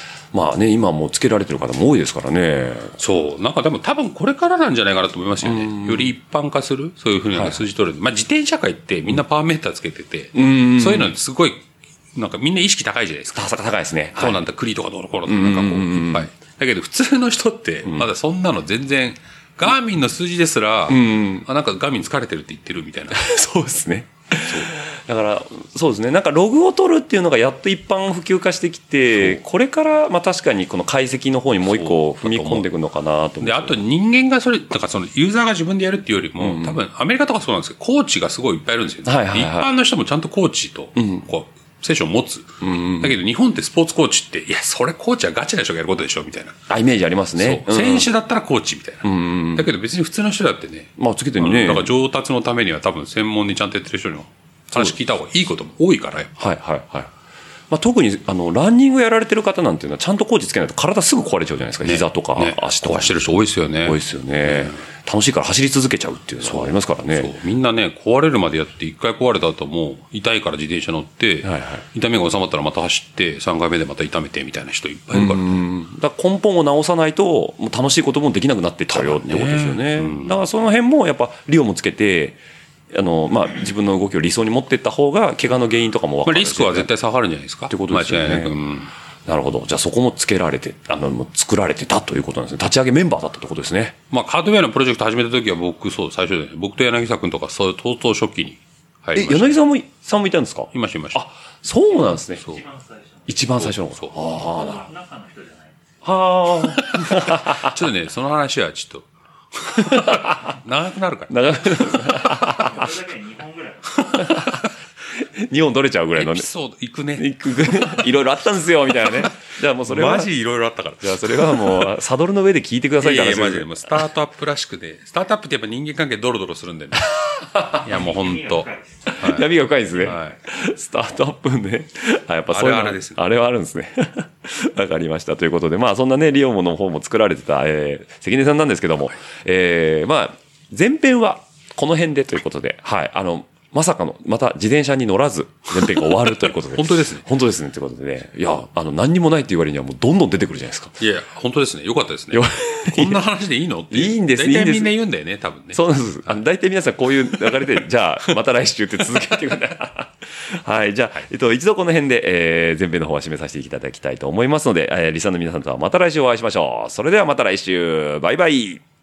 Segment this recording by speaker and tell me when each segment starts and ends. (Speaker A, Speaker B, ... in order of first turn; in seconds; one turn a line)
Speaker A: 0.3-3.0
Speaker B: 3.0-13.5
Speaker A: 5.4-6.1
Speaker A: 7.3-7.6
Speaker A: 10.3-11.1
Speaker A: 13.3-14.5
Speaker B: 14.2-23.3
Speaker A: 15.3-16.3
Speaker A: 20.9-21.4
Speaker A: 23.1-33.8
Speaker B: 24.4-24.8
Speaker B: 29.1-29.4
Speaker B: 31.7-32.7
Speaker B: 33.4-46.6
Speaker A: 36.4-36.8
Speaker A: 39.0-39.7
Speaker A: 41.0-41.2
Speaker A: 42.6-43.2
Speaker A: 46.7-48.1
Speaker B: 47.4-56.5
Speaker A: 49.0-49.7
Speaker A: 51.0-51.9
Speaker A: 56.4-57.1
Speaker A: 57.7-63.2
Speaker B: 61.8-64.9
Speaker A: 63.8-67.3
Speaker B: 66.4-75.6
Speaker A: 71.4-71.8
Speaker A: 75.1-82.4
Speaker B: 78.9-80.4
Speaker A: 82.9-86.9
Speaker B: 86.2-88.9
Speaker A: 87.7-88.6
Speaker A: 89.3-94.0
Speaker B: 94.1-99.6
Speaker A: 99.2-102.5
Speaker B: 100.7-101.2
Speaker C: 102.0-103.4
Speaker B: 102.3-102.6
Speaker A: 103.3-104.9
Speaker B: 103.5-104.2
Speaker C: 104.2-105.9
Speaker A: 106.0-107.8
Speaker B: 106.7-112.6
Speaker A: 109.8-110.4
Speaker A: 111.3-112.9
Speaker C: 112.6-114.5
Speaker B: 114.1-114.7
Speaker A: 114.1-114.7
Speaker A: 115.2-116.5
Speaker B: 116.2-118.2
Speaker A: 117.2-120.3
Speaker B: 118.9-119.3
Speaker B: 119.8-122.0
Speaker A: 121.0-123.8
Speaker B: 123.0-127.2
Speaker C: 127.8-129.2
Speaker B: 127.8-130.4
Speaker A: 129.2-151.0
Speaker B: 132.5-133.2
Speaker B: 145.9-147.3
Speaker B: 151.0-156.4
Speaker A: 152.3-153.2
Speaker A: 153.9-154.9
Speaker A: 155.7-168.8